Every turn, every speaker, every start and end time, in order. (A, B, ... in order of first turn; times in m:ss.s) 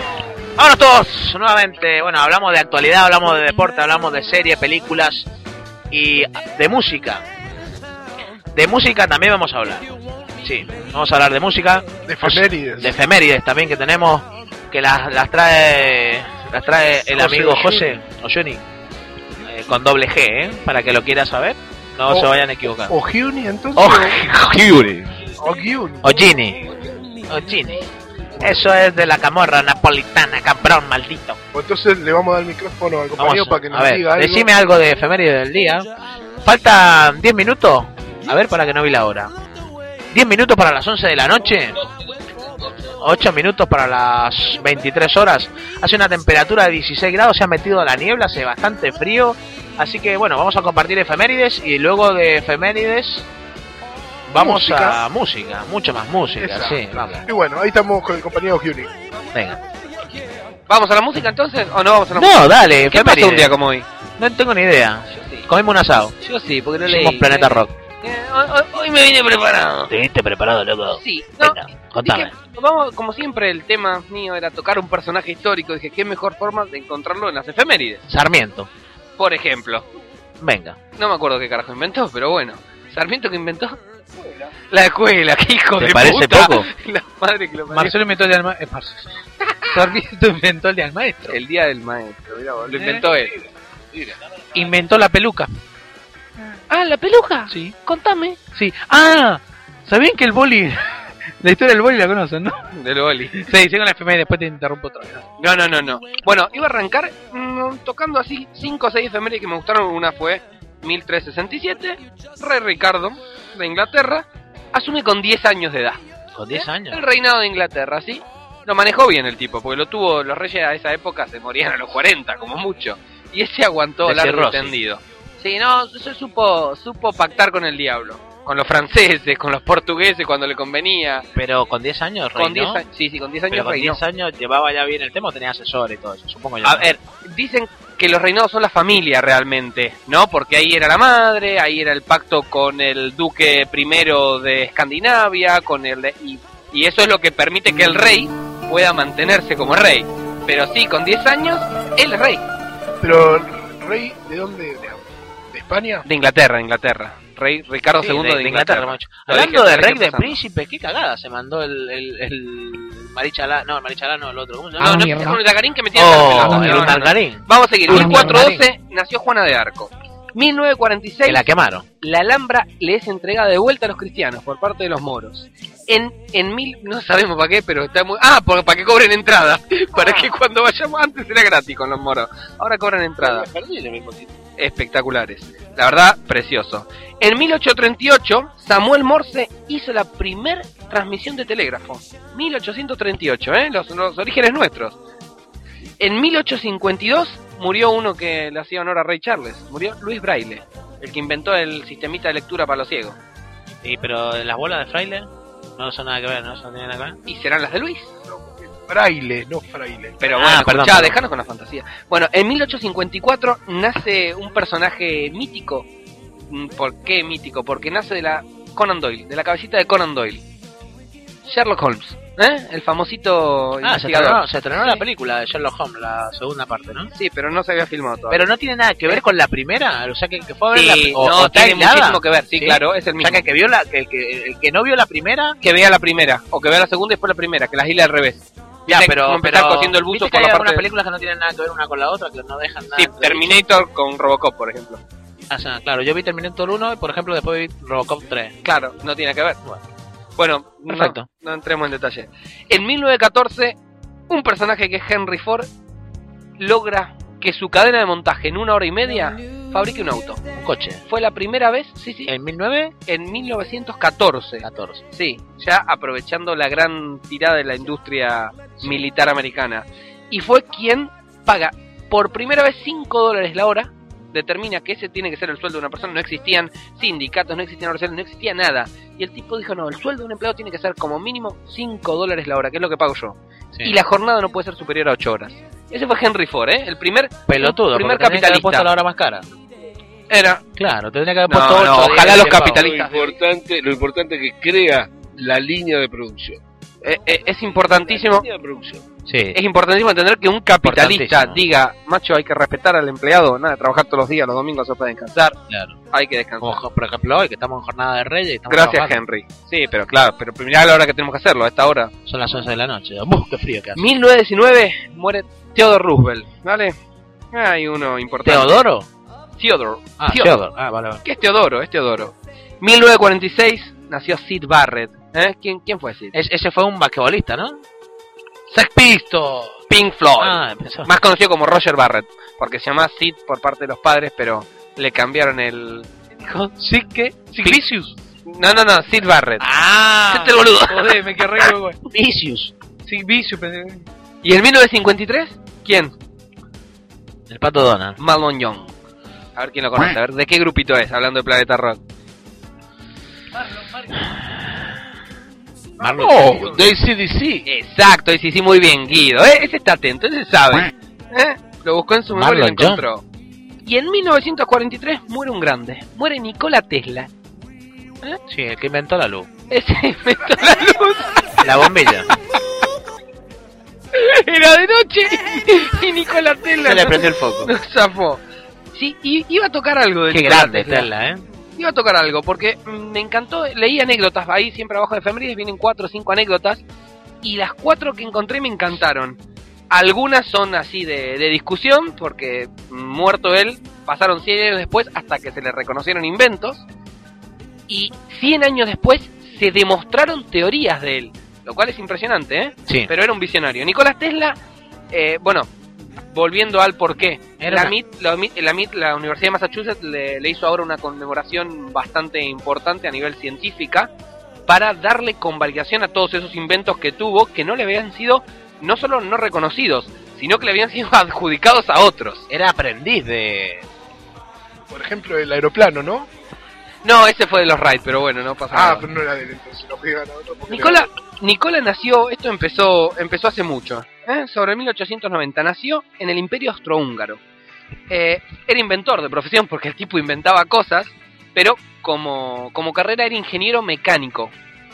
0:00.6-0:05.3 A
0:05.9-0:07.2 A
0:08.6-0:09.9 A
0:10.4-0:18.6 A
0:12.1-0:13.0 B
0:17.1-0:17.9 B
0:19.4-0:22.9 A
0:22.1-0:24.2 B
0:23.8-0:25.0 A
0:25.4-0:26.1 B
0:26.0-0:26.6 A
0:27.3-0:27.9 A
0:28.4-0:31.4 A
0:31.5-0:34.5 B
0:33.2-0:35.9 A
0:36.4-0:39.3 A
0:40.1-0:41.8 A
0:43.0-0:53.3 A
0:54.3-0:57.2 A
0:54.3-0:55.0 B
0:56.4-0:58.9 B
1:00.7-1:03.9 C
1:02.2-1:03.5 A
1:04.2-1:06.1 A
1:05.1-1:05.5 C
1:06.2-1:09.9 C
1:06.8-1:07.7 A
1:09.9-1:12.3 A
1:11.0-1:18.0 C
1:18.1-1:18.7 A
1:19.2-1:19.9 C
1:20.4-1:20.8 A
1:21.0-1:23.8 C
1:24.7-1:28.0 C
1:25.8-1:26.7 A
1:27.7-1:29.1 D
1:29.7-1:31.4 D
1:29.7-1:30.0 C
1:31.3-1:33.4 C
1:32.7-1:33.0 D
1:34.6-1:35.5 D
1:36.7-1:38.4 C
1:37.5-1:37.8 D
1:38.5-1:40.8 D
1:41.4-1:42.6 D
1:42.7-1:43.5 C
1:43.4-1:45.3 D
1:45.4-2:11.3 C
1:56.4-1:57.0 A
2:04.0-2:04.7 A
2:11.4-2:12.8 A
2:12.4-2:14.0 C
2:13.5-2:16.9 A
2:16.6-2:32.4 C
2:33.0-2:36.1 B
2:36.1-2:40.4 C
2:38.0-2:45.4 A
2:44.8-2:51.5 C
2:46.0-2:48.6 A
2:51.3-2:51.8 A
2:52.0-3:03.5 C
3:03.2-3:04.3 E
3:04.6-3:15.0 C
3:16.0-3:23.2 C
3:23.8-3:27.2 A
3:27.3-3:28.1 C
3:28.3-3:30.2 B
3:30.2-3:35.9 C
3:30.4-3:31.2 A
3:36.5-3:40.4 C
3:41.5-3:45.0 C
3:43.8-3:47.1 A
3:47.1-3:48.4 C
3:48.3-3:55.6 A
3:50.7-3:53.4 C
3:55.6-4:00.9 C
3:58.9-4:03.6 A
4:02.9-4:05.0 C
4:05.5-4:08.6 A
4:08.6-4:09.6 C
4:10.4-4:13.8 C
4:10.9-4:11.2 A
4:14.3-4:15.7 C
4:16.6-4:20.4 C
4:20.6-4:21.0 A
4:21.1-4:22.3 C
4:22.3-4:22.9 A
4:23.1-4:48.9 C
4:24.6-4:25.0 A
4:47.5-4:49.5 A
4:50.3-4:50.6 C
4:50.8-4:52.9 A
4:51.5-4:53.4 C
4:52.4-4:56.6 E
4:57.0-4:58.5 C
4:57.8-4:59.0 E
4:59.3-4:59.6 A
4:59.5-5:05.6 C
5:00.8-5:01.6 A
5:05.7-5:06.0 A
5:06.1-5:06.8 C
5:06.6-5:09.2 A
5:08.7-5:12.1 C
5:12.3-5:14.1 A
5:14.0-5:17.0 C
5:17.5-5:18.8 C
5:18.4-5:19.1 A
5:19.6-5:20.6 C
5:20.2-5:21.2 A
5:21.2-5:26.3 C
5:26.3-5:27.8 A
5:28.7-5:29.8 D
5:29.9-5:36.1 C
5:30.4-5:31.1 A
5:36.5-5:38.1 D
5:38.5-5:39.6 C
5:39.6-5:40.9 A
5:40.3-5:41.7 C
5:41.0-5:42.0 D
5:42.1-5:42.7 A
5:43.0-5:44.0 D
5:44.4-5:46.1 C
5:47.5-5:48.2 A
5:48.2-5:48.9 C
5:49.6-5:52.0 C
5:54.2-5:54.6 A
5:56.0-5:56.8 A
5:56.1-5:56.8 C
5:56.3-5:57.6 E
5:57.7-6:03.2 C
6:02.3-6:03.0 A
6:03.8-6:07.3 C
6:08.5-6:09.5 A
6:09.7-6:11.8 C
6:11.6-6:12.3 A
6:14.1-6:18.4 C
6:16.8-6:17.7 A
6:18.9-6:21.1 C
6:20.3-6:21.4 A
6:21.8-6:26.8 C
6:27.4-6:29.4 C
6:29.9-6:36.8 C
6:37.9-6:44.6 C
6:45.1-6:45.7 C
6:46.3-6:54.1 C
6:47.6-6:47.9 A
6:54.7-7:02.5 C
7:02.5-7:03.9 A
7:04.9-7:06.3 B
7:07.0-7:09.1 C
7:08.7-7:11.1 B
7:10.7-7:17.4 C
7:18.1-7:24.5 C